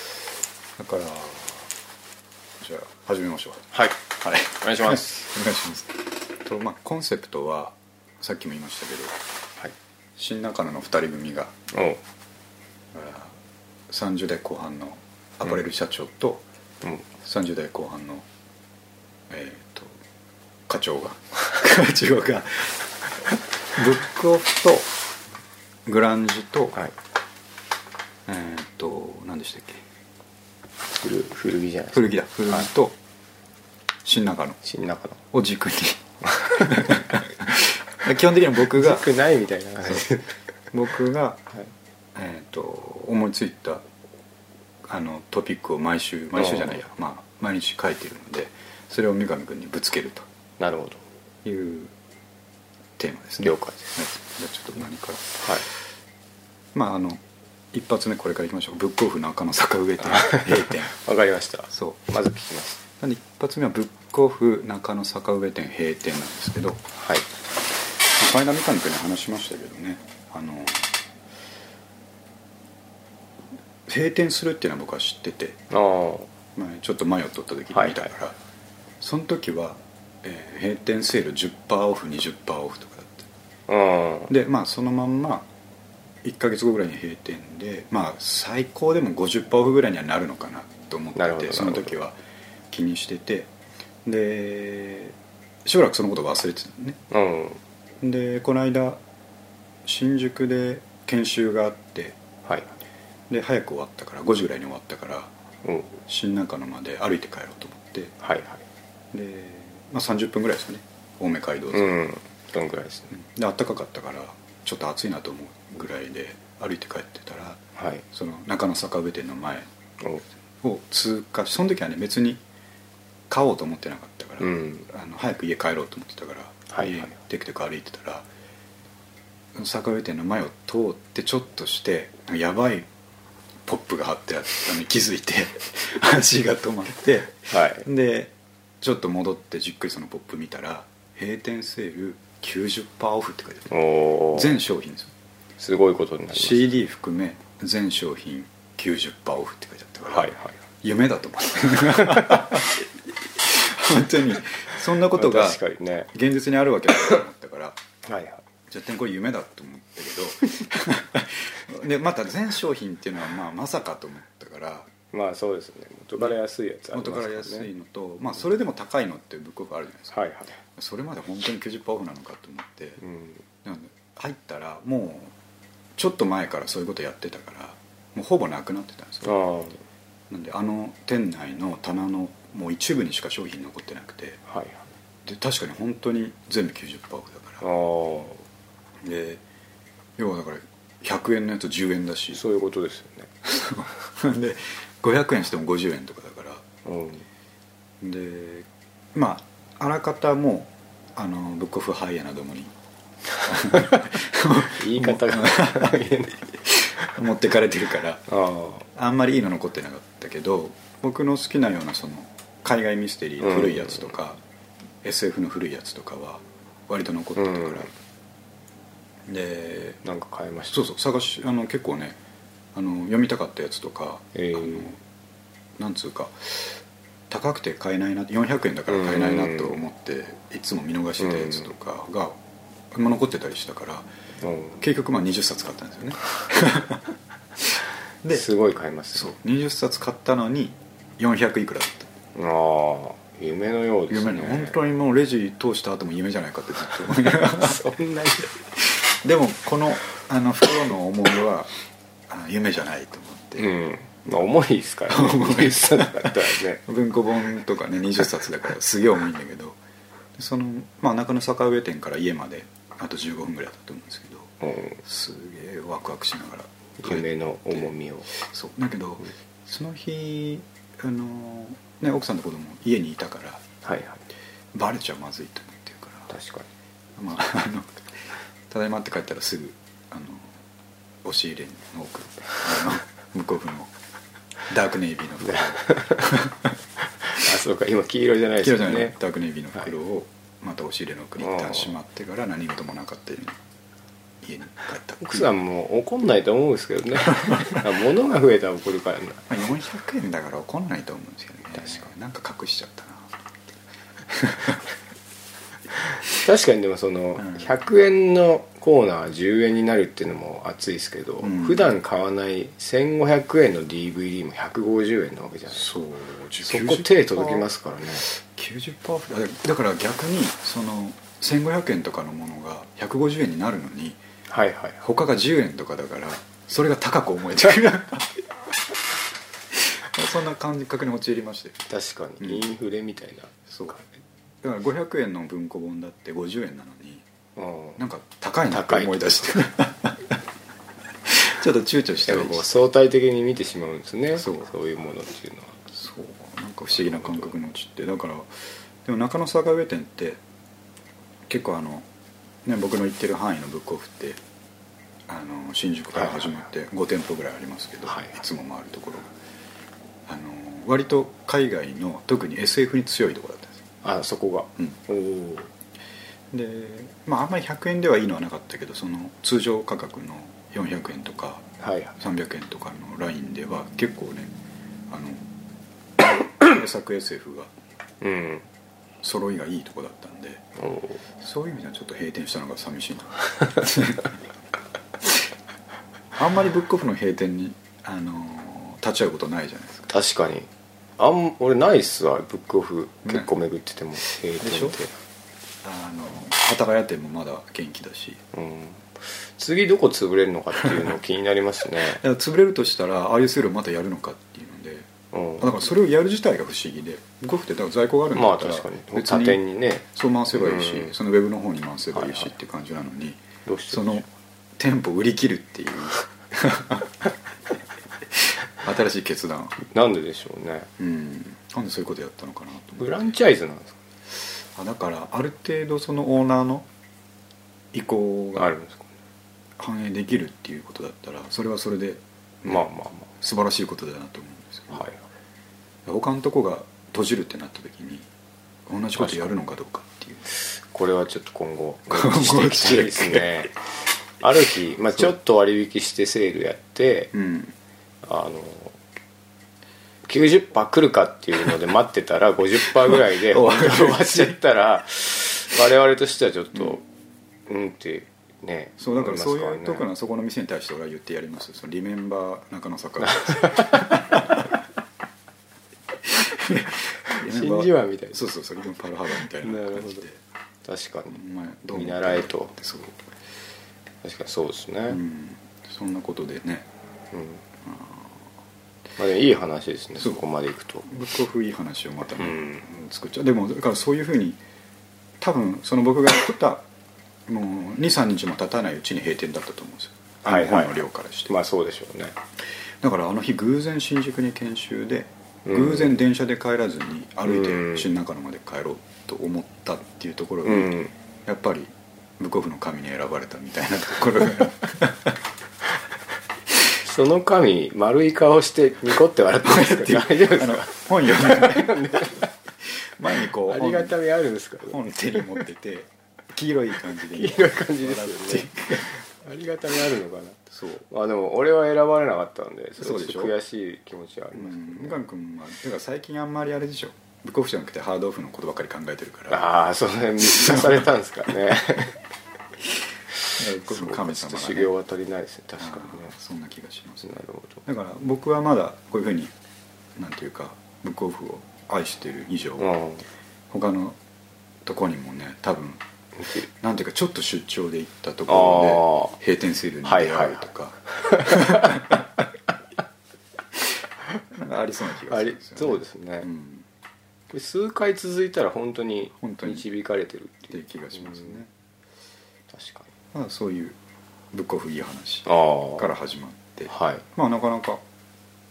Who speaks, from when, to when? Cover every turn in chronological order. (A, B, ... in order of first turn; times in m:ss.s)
0:00.8-0:01.7 A
0:02.6-0:09.2 A
0:03.7-0:05.2 B
0:10.2-0:11.6 A
0:11.7-0:12.0 B
0:12.9-0:13.4 A
0:13.9-0:16.4 A
0:16.8-0:17.1 B
0:17.2-0:18.2 A
0:19.3-0:20.0 A
0:20.7-0:22.8 A
0:23.7-0:24.9 A
0:25.8-0:26.8 A
0:28.3-0:29.8 A
0:30.9-0:32.7 B
0:31.9-0:33.0 A
0:34.0-0:34.6 A
0:34.6-0:35.2 B
0:35.3-0:39.1 A
0:36.2-0:37.0 B
0:38.7-0:40.3 B
0:40.7-0:41.4 A
0:42.1-0:43.8 A
0:44.9-0:50.2 A
0:46.4-0:46.8 B
0:50.6-0:51.0 B
0:51.4-0:51.9 A
0:53.0-0:55.4 A
0:53.4-0:53.9 B
0:56.7-0:57.2 A
0:57.7-1:00.9 A
1:00.0-1:02.8 B
1:01.7-1:02.1 A
1:03.0-1:06.9 A
1:07.0-1:07.3 B
1:08.1-1:10.9 A
1:13.9-1:15.6 A
1:15.7-1:16.3 B
1:16.5-1:18.4 A
1:17.7-1:18.1 B
1:19.0-1:23.3 A
1:23.7-1:24.3 B
1:24.3-1:25.5 A
1:26.2-1:32.2 A
1:31.2-1:32.0 B
1:32.7-1:33.5 A
1:34.0-1:37.0 A
1:37.1-1:37.6 B
1:38.0-1:39.0 A
1:39.8-1:42.2 A
1:42.4-1:42.7 B
1:43.3-1:45.3 A
1:45.6-1:46.0 B
1:46.1-1:48.2 A
1:48.2-1:48.6 B
1:49.1-1:52.0 A
1:51.7-1:53.1 B
1:53.1-1:59.7 A
1:57.8-1:58.0 B
2:00.6-2:02.4 A
2:03.3-2:08.2 A
2:04.4-2:04.9 B
2:06.7-2:07.1 B
2:09.5-2:12.9 A
2:13.6-2:23.7 A
2:17.5-2:17.8 B
2:23.7-2:24.6 B
2:24.3-2:25.1 A
2:25.6-2:26.7 B
2:26.3-2:37.8 A
2:30.0-2:30.6 B
2:32.0-2:32.4 B
2:35.1-2:36.1 B
2:38.0-2:38.4 B
2:38.7-2:44.9 A
2:45.1-2:47.7 B
2:46.9-2:50.1 A
2:50.1-2:50.6 B
2:50.7-2:53.0 A
2:53.0-2:53.4 B
2:53.6-2:55.3 A
2:56.0-2:59.4 A
2:59.2-2:59.8 B
3:00.3-3:04.4 A
3:04.5-3:04.9 B
3:05.2-3:07.6 A
3:07.6-3:08.4 B
3:09.0-3:09.4 A
3:10.2-3:12.4 A
3:12.3-3:13.3 B
3:13.4-3:16.6 A
3:16.8-3:17.2 B
3:18.0-3:22.7 A
3:23.4-3:26.0 A
3:24.7-3:26.4 B
3:26.6-3:28.2 A
3:28.3-3:28.8 B
3:28.9-3:34.4 A
3:33.4-3:34.1 B
3:35.0-3:37.9 A
3:37.4-3:37.9 B
3:39.3-3:40.0 A
3:40.0-3:40.8 B
3:40.7-3:42.2 A
3:42.7-3:45.0 A
3:44.3-3:44.9 B
3:45.8-3:52.4 A
3:48.9-3:49.8 B
3:51.2-3:51.7 B
3:52.9-3:54.1 A
3:54.4-3:54.8 B
3:54.8-3:57.0 A
3:58.3-3:59.3 B
3:59.1-4:02.1 A
4:02.3-4:04.8 B
4:04.1-4:07.8 A
4:07.3-4:08.5 B
4:08.8-4:11.7 A
4:12.3-4:13.7 A
4:13.6-4:16.8 B
4:15.1-4:19.8 A
4:20.4-4:33.7 A
4:24.6-4:25.0 B
4:27.0-4:28.3 B
4:33.8-4:34.2 B
4:34.7-4:36.3 A
4:36.3-4:36.7 B
4:37.2-4:37.9 A
4:38.7-4:40.5 A
4:41.2-4:43.9 A
4:44.7-4:46.6 A
4:45.5-4:46.3 B
4:47.0-4:49.1 B
4:48.6-4:53.6 A
4:51.4-4:51.9 B
4:54.4-4:55.5 A
4:55.2-4:59.4 B
4:57.4-4:57.8 A
4:59.5-5:03.3 A
5:04.3-5:04.8 A
5:06.3-5:15.9 B
5:11.4-5:11.9 A
5:15.7-5:17.7 A
5:16.6-5:18.2 B
5:18.2-5:24.2 A
5:24.5-5:25.0 B
5:25.0-5:28.4 A
5:29.7-5:31.8 A
5:31.9-5:34.0 B
5:32.4-5:32.7 A
5:33.7-5:34.0 A
5:34.6-5:37.2 A
5:37.6-5:38.0 B
5:38.0-5:40.4 A
5:38.7-5:39.6 B
5:41.3-5:42.7 A
5:42.3-5:45.8 B
5:44.4-5:44.7 A
5:45.9-5:48.5 A
5:46.9-5:47.5 B
5:49.0-5:50.4 A
5:51.5-5:52.1 A
5:52.6-5:54.4 A
5:55.3-5:59.3 A
5:56.1-5:56.4 B
5:58.1-5:58.3 B
6:00.3-6:03.8 A
6:04.0-6:05.7 B
6:06.5-6:14.5 A
6:11.8-6:12.1 B
6:15.1-6:15.5 A
6:16.5-6:17.7 A
6:18.2-6:18.7 B
6:19.2-6:20.6 A
6:20.8-6:21.2 B
6:21.4-6:24.3 A
6:26.3-6:30.1 A
6:30.1-6:35.1 B
6:33.2-6:33.5 A
6:34.6-6:35.0 A
6:35.8-6:38.4 A
6:38.5-6:42.2 B
6:42.0-6:54.2 A
6:45.3-6:45.8 B
6:48.3-6:51.1 B
6:52.1-6:52.5 B
6:53.6-6:54.2 B
6:54.8-6:57.2 A
6:58.7-6:59.8 A
6:59.8-7:00.9 B
7:01.0-7:03.3 A
7:03.0-7:04.0 B
7:04.7-7:06.9 A
7:07.9-7:08.7 A
7:08.6-7:09.1 B
7:09.8-7:15.1 A
7:12.6-7:13.3 B
7:14.9-7:15.2 B
7:16.0-7:18.3 A
7:18.9-7:20.4 A
7:19.2-7:19.6 B
7:20.8-7:23.7 B
7:22.1-7:23.5 A
7:24.4-7:27.3 B
7:27.3-7:27.7 A
7:28.2-7:29.0 B
7:30.2-7:37.0 B
7:33.1-7:34.6 A
7:37.7-7:40.0 B
7:39.0-7:44.6 A
7:43.2-7:44.4 B
7:46.3-7:50.4 A
7:47.3-7:48.4 B
7:49.6-7:50.2 B
7:50.8-7:51.4 B
7:51.3-7:53.2 A
7:51.9-7:52.7 B
7:54.2-7:55.2 B
7:55.1-7:56.8 A
7:57.3-7:57.6 B
7:57.8-7:58.3 A
7:59.2-8:01.1 B
8:01.0-8:04.6 A
8:02.4-8:02.8 B
8:05.4-8:06.8 A
8:07.5-8:11.5 A
8:10.4-8:12.4 B
8:13.0-8:25.3 A
8:15.6-8:16.2 B
8:17.4-8:18.1 B
8:20.6-8:21.1 B
8:27.0-8:32.5 B
8:29.6-8:32.4 A
8:33.1-8:34.2 A
8:33.3-8:35.6 B
8:34.9-8:39.1 A
8:37.2-8:45.2 B
8:40.7-8:41.0 A
8:43.0-8:43.5 A
8:44.5-8:49.7 A
8:49.5-8:52.2 B
8:50.5-8:51.0 A
8:53.5-8:54.9 A
8:53.8-8:56.3 B
8:55.8-8:57.3 A
8:57.2-8:57.8 B
8:57.8-8:59.5 A
9:00.2-9:03.0 A
9:02.8-9:03.2 B
9:03.7-9:04.2 A
9:04.8-9:06.0 A
9:06.4-9:06.7 B
9:06.8-9:12.2 A
9:08.5-9:09.3 B
9:10.0-9:12.1 B
9:14.5-9:16.8 A
9:15.3-9:16.5 B
9:17.5-9:21.6 B
9:19.4-9:19.8 A
9:20.7-9:21.7 A
9:22.7-9:23.1 B
9:23.3-9:24.0 A
9:24.5-9:28.0 A
9:25.4-9:26.1 B
9:26.9-9:27.2 B